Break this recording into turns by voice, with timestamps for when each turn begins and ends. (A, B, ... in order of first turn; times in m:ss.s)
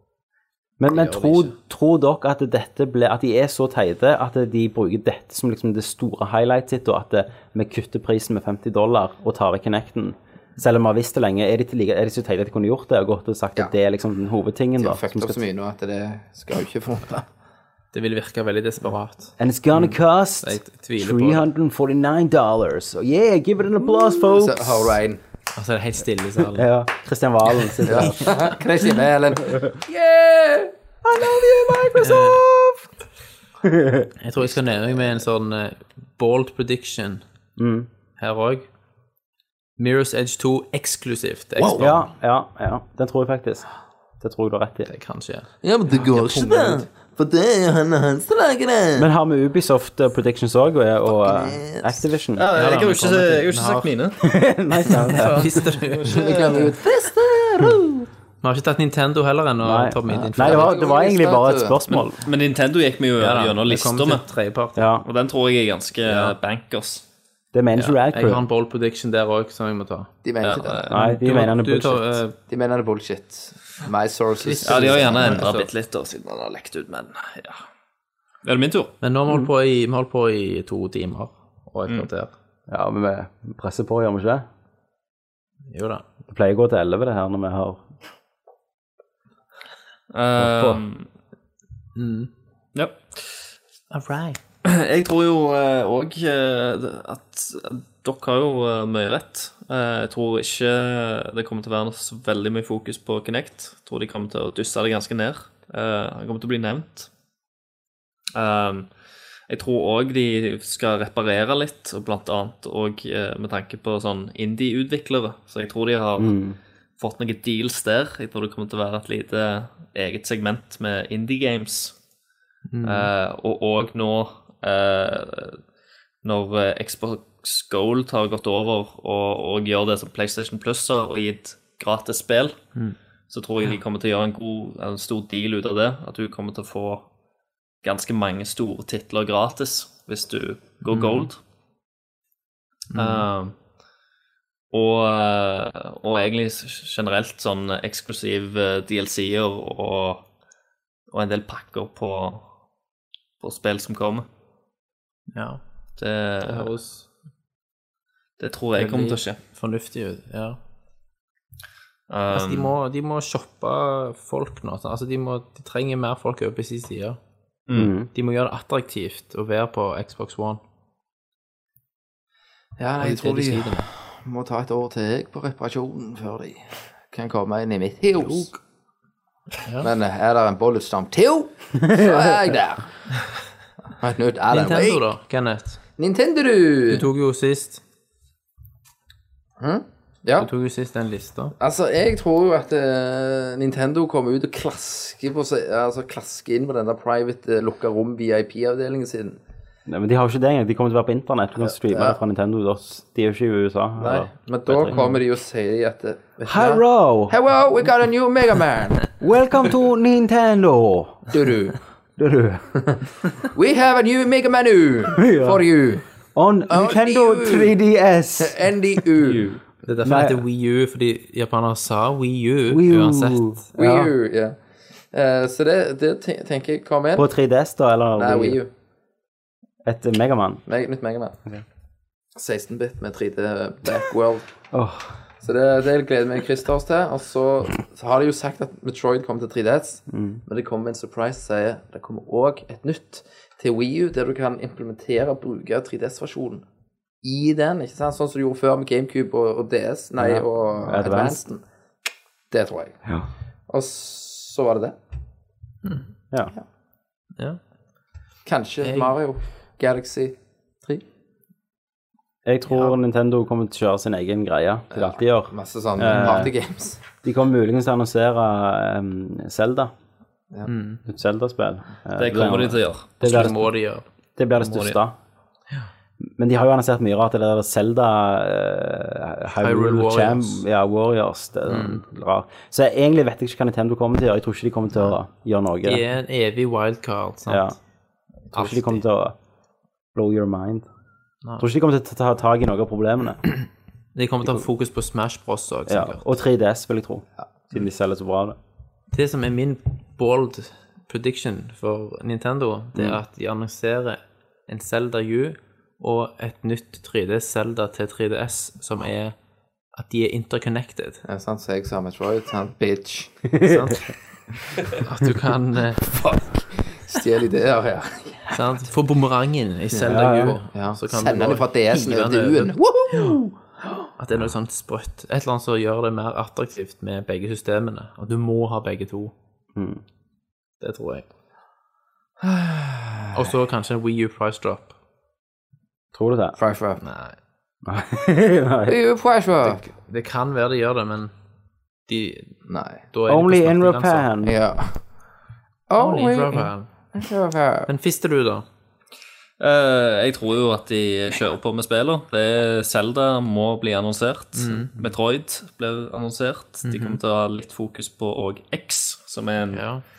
0:00.8-0:15.4 A
0:00.9-0:01.5 B
0:14.8-0:17.3 C
0:17.9-0:21.4 B
0:19.4-0:25.0 A
0:24.2-0:25.2 C
0:25.6-0:26.7 B
0:26.6-0:28.4 A
0:27.8-0:30.7 C
0:27.9-0:28.4 B
0:31.0-0:32.8 A
0:32.0-0:32.4 B
0:33.6-0:34.1 A
0:34.2-0:37.2 B
0:37.6-0:37.9 A
0:38.2-0:38.6 B
0:39.8-0:42.1 B
0:41.8-0:43.6 A
0:44.2-0:44.9 A
0:44.9-0:46.8 B
0:45.6-0:49.0 C
0:49.0-0:52.4 A
0:51.2-0:51.9 C
0:52.4-0:54.2 D
0:52.5-0:53.9 B
0:54.2-0:55.6 A
0:54.9-0:56.6 B
0:55.1-0:55.3 D
0:56.0-0:56.6 D
0:56.0-0:58.1 C
0:58.4-1:00.8 B
0:59.6-1:02.2 A
1:00.3-1:01.8 C
1:01.9-1:04.2 D
1:03.2-1:04.8 B
1:04.8-1:05.0 A
1:05.0-1:07.0 D
1:07.5-1:08.4 A
1:07.8-1:10.1 B
1:10.2-1:10.9 C
1:10.4-1:10.9 D
1:10.9-1:12.4 B
1:10.9-1:12.2 A
1:12.5-1:15.5 C
1:14.4-1:15.7 B
1:14.6-1:17.6 D
1:18.4-1:18.9 D
1:19.0-1:22.3 B
1:22.7-1:24.4 A
1:25.7-1:26.0 B
1:26.3-1:27.8 A
1:30.1-1:31.1 D
1:30.4-1:30.8 A
1:32.0-1:32.3 B
1:32.7-1:33.2 D
1:33.9-1:34.4 B
1:34.6-1:47.1 D
1:48.4-1:48.9 D
1:49.5-1:56.4 D
1:56.2-1:56.6 A
1:57.0-2:01.9 D
2:02.7-2:03.1 B
2:02.8-2:05.6 D
2:06.2-2:12.6 D
2:13.3-2:17.1 D
2:17.8-2:21.4 D
2:20.8-2:21.3 B
2:22.9-2:23.3 B
2:22.9-2:23.6 D
2:24.7-2:30.2 D
2:31.1-2:32.4 D
2:33.4-2:34.3 D
2:35.3-2:35.6 B
2:36.0-2:36.7 D
2:36.4-2:37.1 B
2:38.4-2:39.4 D
2:38.8-2:40.6 B
2:42.1-2:42.7 D
2:42.3-2:47.2 B
2:47.7-2:47.9 D
2:47.7-2:48.1 A
2:48.1-2:50.6 B
2:52.8-2:58.5 C
2:53.0-2:53.9 B
2:59.8-3:02.9 C
3:04.0-3:05.1 C
3:04.5-3:05.8 B
3:06.0-3:07.1 C
3:06.9-3:07.8 B
3:09.6-3:10.5 C
3:10.4-3:11.5 B
3:11.6-3:19.4 C
3:19.9-3:25.0 A
3:21.8-3:22.2 C
3:24.0-3:29.1 C
3:24.9-3:25.2 B
3:26.4-3:27.4 A
3:29.2-3:31.3 A
3:31.3-3:31.8 C
3:32.2-3:32.8 A
3:33.5-3:36.0 C
3:35.2-3:35.6 A
3:36.3-3:38.6 A
3:36.7-3:37.7 C
3:38.4-3:39.6 C
3:39.8-3:43.6 B
3:40.0-3:40.4 A
3:42.7-3:44.1 A
3:43.7-3:44.6 C
3:45.1-3:47.3 C
3:47.2-3:48.6 A
3:48.2-3:48.7 C
3:49.8-3:50.6 A
3:50.6-3:51.4 C
3:52.4-3:54.5 C
3:54.7-3:55.1 A
3:55.4-4:06.6 C
4:00.1-4:00.4 A
4:07.2-4:11.6 C
4:10.2-4:11.4 A
4:12.5-4:13.0 C
4:13.7-4:15.0 C
4:18.4-4:21.0 C
4:18.8-4:19.1 B
4:22.4-4:26.5 A
4:24.9-4:27.0 C
4:27.2-4:29.9 A
4:30.7-4:31.0 B
4:31.1-4:33.7 A
4:32.2-4:33.5 D
4:33.2-4:34.0 B
4:34.4-4:35.2 A
4:34.6-4:35.0 D
4:36.4-4:46.0 A
4:39.6-4:40.6 B
4:41.7-4:42.0 B
4:45.8-4:47.7 B
4:47.5-4:47.8 A
4:48.5-4:49.0 B
4:48.5-4:49.4 A
4:50.2-4:50.8 A
4:51.6-4:53.4 A
4:54.2-4:56.3 B
4:55.9-4:58.6 A
4:59.1-5:09.4 B
5:09.9-5:11.2 B
5:11.2-5:13.4 C
5:13.5-5:13.8 A
5:13.6-5:14.1 B
5:14.9-5:16.2 B
5:16.1-5:18.6 C
5:18.5-5:23.4 B
5:20.1-5:20.6 A
5:20.7-5:23.5 C
5:24.2-5:29.3 B
5:29.8-5:30.0 A
5:30.8-5:31.3 B
5:32.4-5:33.5 C
5:33.3-5:34.9 B
5:36.1-5:36.6 A
5:36.6-5:37.0 C
5:37.0-5:37.4 B
5:37.8-5:39.0 A
5:38.8-5:39.8 C
5:39.6-5:41.3 B
5:42.1-5:42.6 B
5:42.7-5:43.0 C
5:43.1-5:44.3 B
5:43.3-5:44.6 A
5:44.4-5:45.0 C
5:45.9-5:47.9 C
5:46.0-5:46.9 B
5:47.9-5:48.6 B
5:49.6-5:59.8 D
5:54.6-5:55.0 B
5:56.8-5:57.2 B
5:59.7-6:00.0 B